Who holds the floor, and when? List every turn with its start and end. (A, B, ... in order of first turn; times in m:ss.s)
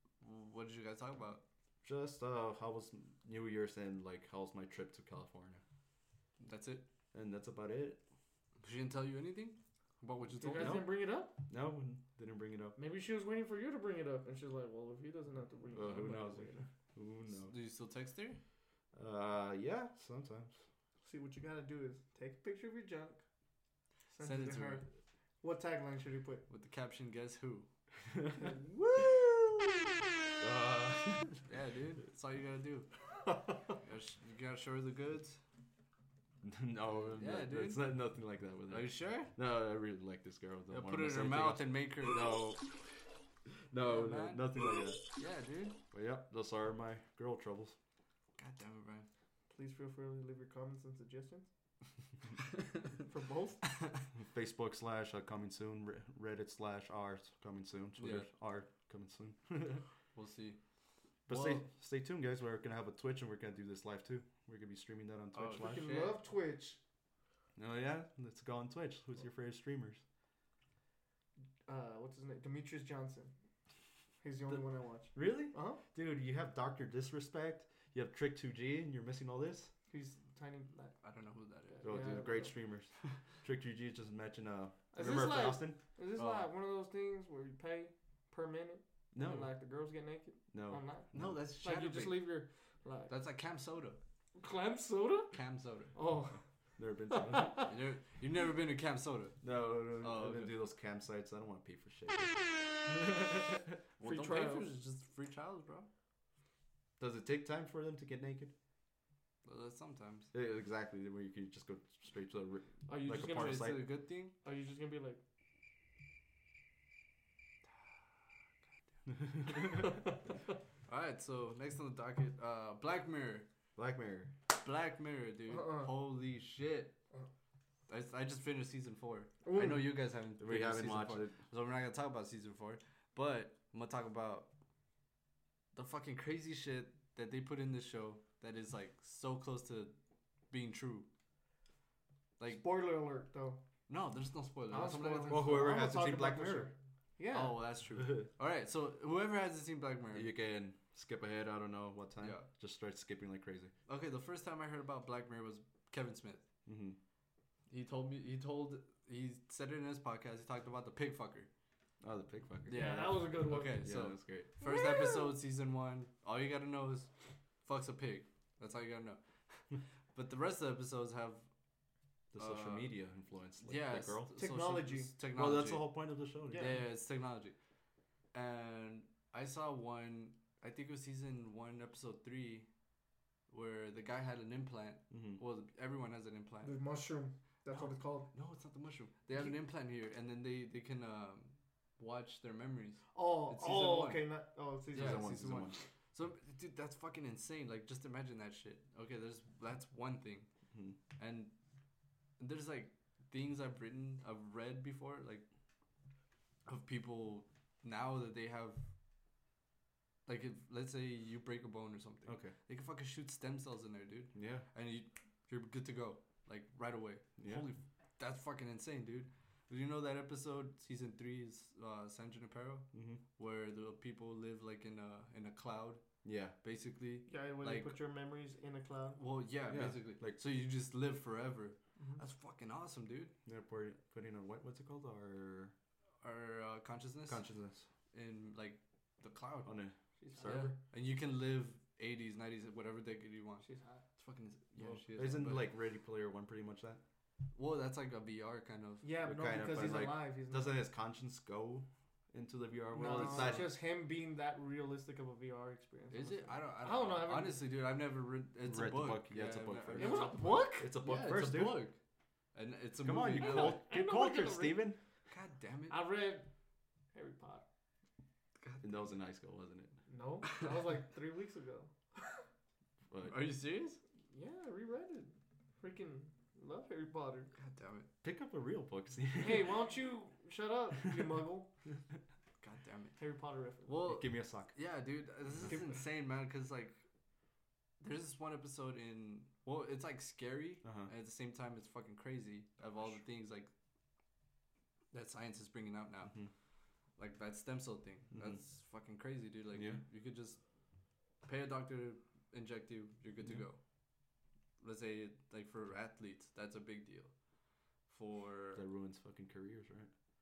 0:00.2-0:01.4 A
0:01.8-0:05.6 B
0:06.4-0:06.8 A
0:07.1-0:08.0 B
0:08.6-0:10.8 A
0:10.4-0:11.3 C
0:10.6-0:10.9 B
0:11.5-0:12.8 B
0:12.8-0:16.6 C
0:15.7-0:17.5 B
0:17.4-0:18.4 A
0:18.9-0:20.6 B
0:21.0-0:23.2 C
0:24.1-0:24.8 C
0:24.2-0:24.8 A
0:25.4-0:26.4 C
0:26.5-0:27.7 A
0:28.1-0:29.6 B
0:30.4-0:31.4 B
0:31.4-0:32.9 A
0:33.2-0:33.8 C
0:33.8-0:35.4 A
0:36.4-0:45.0 B
0:37.1-0:37.9 A
0:38.7-0:39.3 A
0:40.7-0:42.3 A
0:43.8-0:44.5 A
0:45.1-0:45.8 A
0:45.9-0:47.8 B
0:48.4-0:49.1 A
0:49.5-0:51.5 C
0:52.6-0:52.9 A
0:53.0-0:53.6 C
0:54.2-0:59.8 B
0:58.0-0:58.3 A
1:00.1-1:00.6 A
1:01.3-1:01.6 A
1:01.3-1:05.9 B
1:05.3-1:06.2 A
1:05.5-1:06.8 C
1:07.6-1:10.0 B
1:11.7-1:13.3 C
1:14.2-1:15.8 C
1:15.1-1:19.7 B
1:19.9-1:20.9 C
1:21.0-1:22.1 A
1:21.7-1:22.6 C
1:21.8-1:25.8 B
1:24.9-1:33.1 C
1:26.2-1:26.5 A
1:29.1-1:29.5 B
1:30.5-1:31.4 B
1:31.1-1:32.3 A
1:33.1-1:34.0 A
1:34.4-1:35.3 C
1:35.3-1:35.9 A
1:35.9-1:36.4 C
1:36.8-1:37.6 B
1:37.1-1:37.8 C
1:37.7-1:40.5 A
1:39.4-1:42.3 B
1:44.0-1:45.9 A
1:44.0-1:44.7 C
1:47.0-1:48.5 B
1:49.4-1:50.3 A
1:50.3-1:53.8 B
1:52.9-1:53.8 C
1:53.3-1:54.3 A
1:54.4-1:55.2 C
1:59.3-1:59.8 B
1:59.5-2:00.5 C
2:00.9-2:03.5 A
2:03.8-2:04.3 B
2:04.6-2:06.9 A
2:05.5-2:05.9 C
2:07.9-2:14.5 A
2:09.4-2:09.8 C
2:10.4-2:11.4 B
2:15.7-2:19.9 A
2:20.5-2:21.1 A
2:22.4-2:22.6 A
2:22.5-2:23.6 C
2:23.9-2:25.8 A
2:24.7-2:27.6 C
2:25.1-2:26.7 B
2:27.3-2:30.3 A
2:28.0-2:28.3 B
2:30.1-2:33.7 B
2:32.2-2:32.5 A
2:33.9-2:36.4 A
2:36.6-2:37.0 B
2:37.7-2:41.5 A
2:42.0-2:43.2 B
2:42.6-2:47.1 A
2:42.7-2:43.8 C
2:43.7-2:44.5 B
2:44.6-2:45.3 C
2:47.6-2:51.4 A
2:52.3-2:54.3 B
2:52.4-2:52.9 A
2:53.6-2:56.0 A
2:54.4-2:55.1 C
2:55.3-2:56.7 B
2:56.4-2:56.8 C
2:56.5-2:57.6 A
2:58.3-3:02.7 A
3:03.5-3:06.8 A
3:05.1-3:05.4 B
3:06.6-3:08.3 C
3:07.7-3:14.2 A
3:13.1-3:15.3 C
3:14.9-3:20.5 A
3:14.9-3:15.8 B
3:20.7-3:21.0 B
3:21.2-3:21.5 A
3:22.4-3:25.4 A
3:26.6-3:28.8 A
3:30.2-3:46.0 A
3:32.2-3:32.5 B
3:34.3-3:34.6 B
3:37.4-3:37.7 B
3:42.9-3:43.2 B
3:46.2-3:46.5 B
3:46.6-3:48.0 A
3:47.3-3:49.2 C
3:49.2-3:53.3 A
3:49.7-3:50.4 B
3:53.4-3:55.7 B
3:56.2-3:57.4 A
3:57.3-3:57.9 B
3:58.1-3:59.8 A
3:59.6-4:00.7 B
4:00.2-4:00.7 C
4:00.4-4:05.7 A
4:03.6-4:04.0 C
4:04.8-4:07.0 B
4:07.5-4:09.1 A
4:09.0-4:10.8 C
4:09.2-4:13.7 B
4:12.9-4:17.6 C
4:13.1-4:13.7 A
4:16.1-4:22.0 A
4:18.6-4:21.9 B
4:20.0-4:20.9 C
4:22.5-4:23.8 A
4:23.0-4:25.0 B
4:23.4-4:24.8 C
4:25.3-4:26.0 A
4:25.9-4:26.5 C
4:27.1-4:27.6 C
4:28.6-4:29.1 A
4:28.8-4:29.9 B
4:30.1-4:31.9 C
4:30.5-4:30.8 A
4:33.1-4:33.4 B
4:33.2-4:34.0 A
4:34.3-4:37.5 C
4:37.5-4:38.1 A
4:38.2-4:39.8 B
4:39.3-4:41.7 C
4:42.6-4:43.2 A
4:43.2-4:44.0 C
4:43.8-4:47.0 A
4:44.0-4:44.7 B
4:45.5-4:45.8 B
4:48.0-4:53.7 A
4:50.8-4:51.1 B
4:55.1-4:56.3 A
4:57.2-5:00.6 A
4:58.3-4:58.6 B
4:59.7-5:00.0 B
5:01.4-5:03.8 A
5:04.8-5:07.3 A
5:08.1-5:08.8 A
5:08.7-5:10.1 B